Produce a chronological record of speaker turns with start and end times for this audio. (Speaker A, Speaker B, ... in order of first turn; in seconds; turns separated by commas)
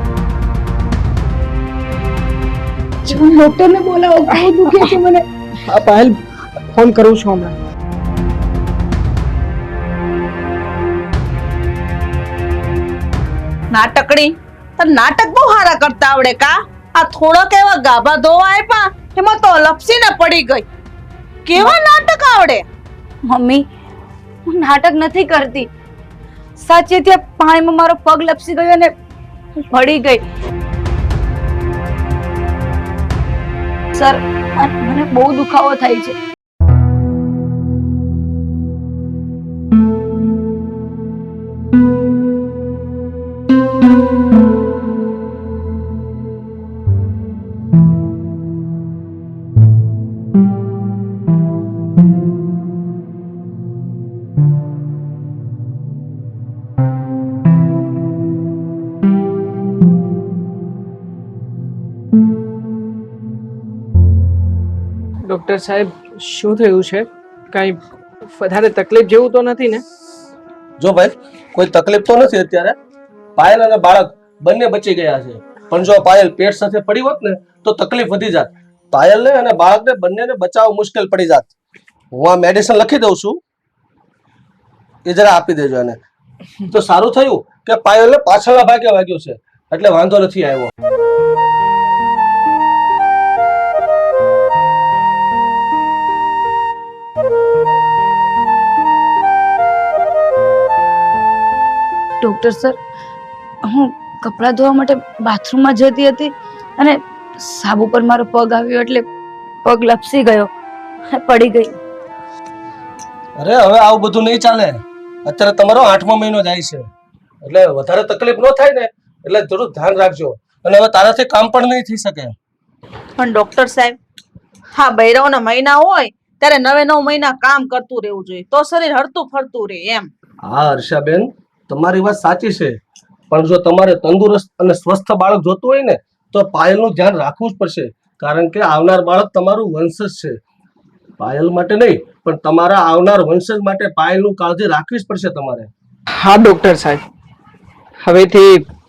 Speaker A: 3.1-5.3, Speaker B: 4.3-5.0, Speaker B: 5.7-7.5, Speaker C: 13.7-20.7, Speaker C: 21.4-22.7, Speaker A: 23.2-23.6, Speaker A: 24.5-25.7, Speaker A: 26.6-28.9, Speaker A: 29.6-30.2, Speaker A: 34.0-36.2, Speaker B: 65.3-69.8, Speaker D: 70.8-72.8, Speaker D: 73.4-81.5, Speaker D: 82.1-83.4, Speaker D: 85.1-86.0, Speaker D: 86.7-90.7, Speaker A: 102.2-102.8, Speaker A: 103.6-109.1, Speaker A: 109.7-110.5, Speaker A: 111.1-111.8, Speaker D: 113.4-116.9, Speaker D: 117.4-122.3, Speaker C: 123.2-124.0, Speaker C: 124.8-130.1, Speaker D: 130.4-132.8, Speaker D: 133.3-140.4, Speaker D: 141.2-145.7, Speaker B: 146.2-147.0, Speaker B: 148.0-148.7